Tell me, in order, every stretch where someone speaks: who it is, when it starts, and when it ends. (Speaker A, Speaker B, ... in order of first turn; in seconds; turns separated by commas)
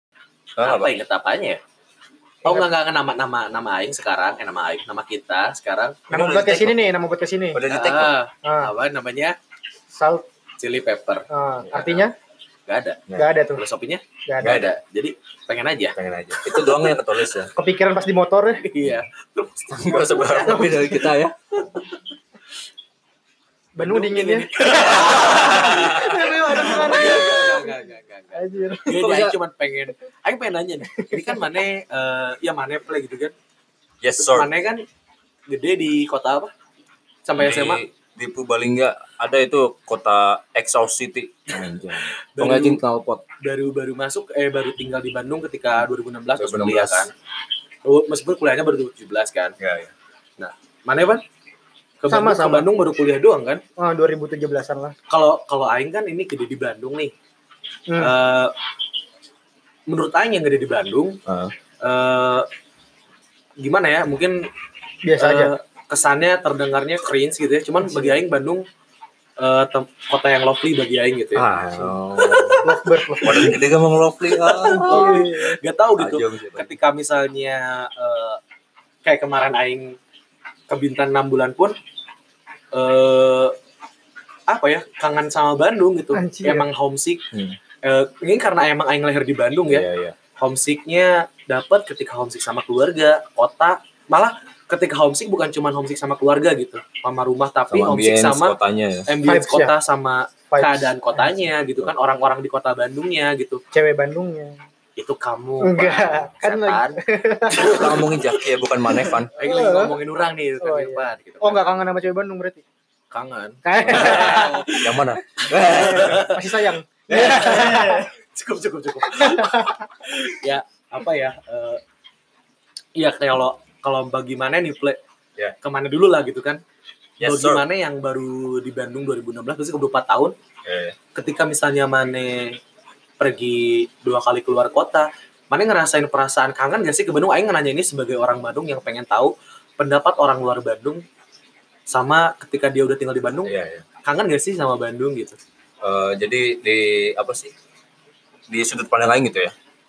Speaker A: 0.6-0.9, Speaker B: 0.6-1.6, Speaker B: 2.4-6.0, Speaker A: 6.1-6.9, Speaker C: 6.1-7.6, Speaker A: 7.5-8.2, Speaker B: 7.7-9.3, Speaker C: 8.4-8.7, Speaker C: 9.9-10.2, Speaker B: 10.6-11.2, Speaker C: 11.3-12.1, Speaker A: 11.7-12.0, Speaker B: 12.7-17.0, Speaker C: 13.1-13.6, Speaker C: 14.2-14.7, Speaker A: 14.4-14.7, Speaker A: 15.9-17.5, Speaker C: 17.6-18.6, Speaker B: 18.6-20.7, Speaker A: 19.7-21.4, Speaker C: 20.4-21.0, Speaker C: 23.8-27.8, Speaker B: 23.8-33.3, Speaker A: 25.0-26.5, Speaker C: 28.3-29.0, Speaker A: 28.9-29.4, Speaker A: 34.0-34.5, Speaker B: 34.2-34.8, Speaker B: 35.5-36.5, Speaker B: 37.2-37.8, Speaker A: 37.4-43.2, Speaker B: 42.3-42.8, Speaker B: 43.4-47.1, Speaker A: 46.4-47.1, Speaker B: 47.8-49.5, Speaker A: 49.6-49.9, Speaker B: 50.4-51.2, Speaker B: 52.0-53.6, Speaker C: 52.1-52.7, Speaker C: 53.8-55.0, Speaker B: 55.1-57.1, Speaker C: 57.9-58.1, Speaker B: 58.0-58.5, Speaker B: 59.9-61.2, Speaker A: 61.2-61.5, Speaker B: 61.8-62.5, Speaker B: 63.6-64.5, Speaker C: 65.0-65.5, Speaker B: 65.2-68.6, Speaker C: 67.8-68.2, Speaker B: 69.4-71.5, Speaker A: 71.3-72.7, Speaker C: 72.6-73.6, Speaker A: 73.2-75.1, Speaker B: 74.4-78.4, Speaker C: 74.6-75.5, Speaker A: 76.0-76.7, Speaker B: 79.0-80.0, Speaker B: 80.7-81.8, Speaker B: 82.7-83.5, Speaker B: 84.5-87.2, Speaker C: 86.1-86.7, Speaker B: 87.8-89.8, Speaker A: 89.7-90.1, Speaker B: 90.4-98.5, Speaker A: 97.7-99.1, Speaker B: 99.1-103.6, Speaker C: 99.2-99.7, Speaker C: 100.5-101.3, Speaker C: 103.7-104.6, Speaker B: 105.0-107.0, Speaker C: 105.6-108.0, Speaker A: 107.5-109.3, Speaker C: 109.3-110.0, Speaker B: 109.3-111.7, Speaker C: 110.6-112.6, Speaker B: 113.1-116.4, Speaker C: 113.6-114.7, Speaker A: 113.8-116.3, Speaker C: 115.6-118.1, Speaker A: 117.1-118.0, Speaker B: 117.1-121.8, Speaker C: 119.2-119.7, Speaker B: 123.0-125.0, Speaker B: 125.6-126.6, Speaker A: 127.2-127.6, Speaker B: 127.2-130.3, Speaker A: 130.6-130.9, Speaker B: 131.1-132.6, Speaker B: 133.2-141.0, Speaker B: 141.9-143.5, Speaker A: 143.4-143.8, Speaker B: 144.0-145.4, Speaker A: 145.8-147.5, Speaker A: 148.5-149.5